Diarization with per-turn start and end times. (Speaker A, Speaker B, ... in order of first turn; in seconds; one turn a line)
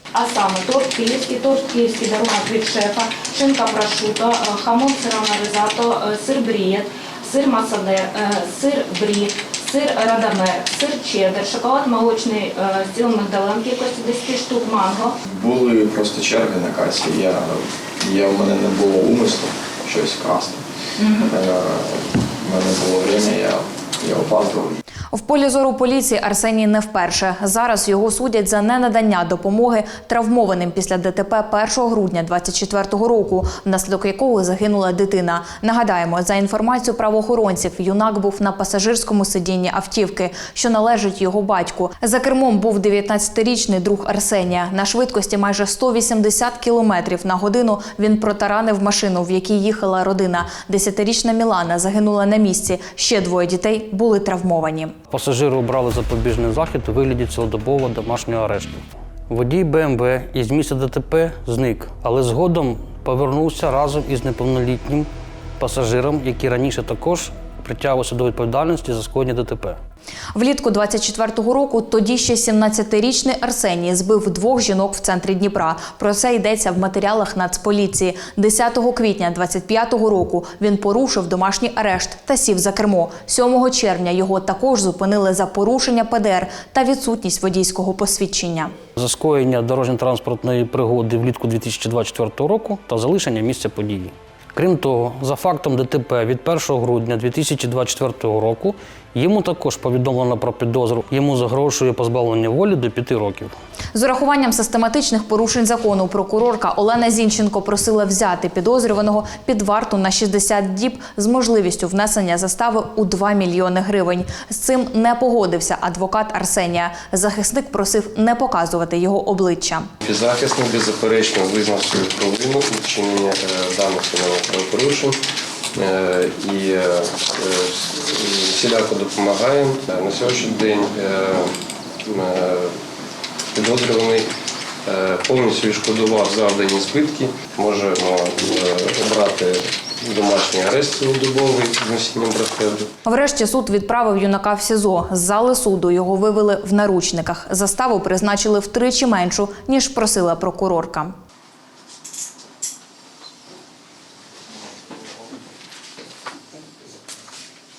Speaker A: 0.1-15.1
Speaker B: 15.2-20.6
Speaker A: 21.0-21.3
Speaker B: 21.2-24.8
Speaker C: 25.1-54.9
Speaker D: 55.1-65.1
Speaker D: 65.6-69.8
Speaker C: 70.3-88.7
Speaker D: 89.0-103.5
Speaker C: 103.9-119.9
Speaker E: 120.0-125.2
Speaker E: 125.7-131.5
Speaker E: 132.0-132.7
Speaker E: 133.5-134.3
Speaker E: 134.8-142.9
Speaker C: 143.1-151.1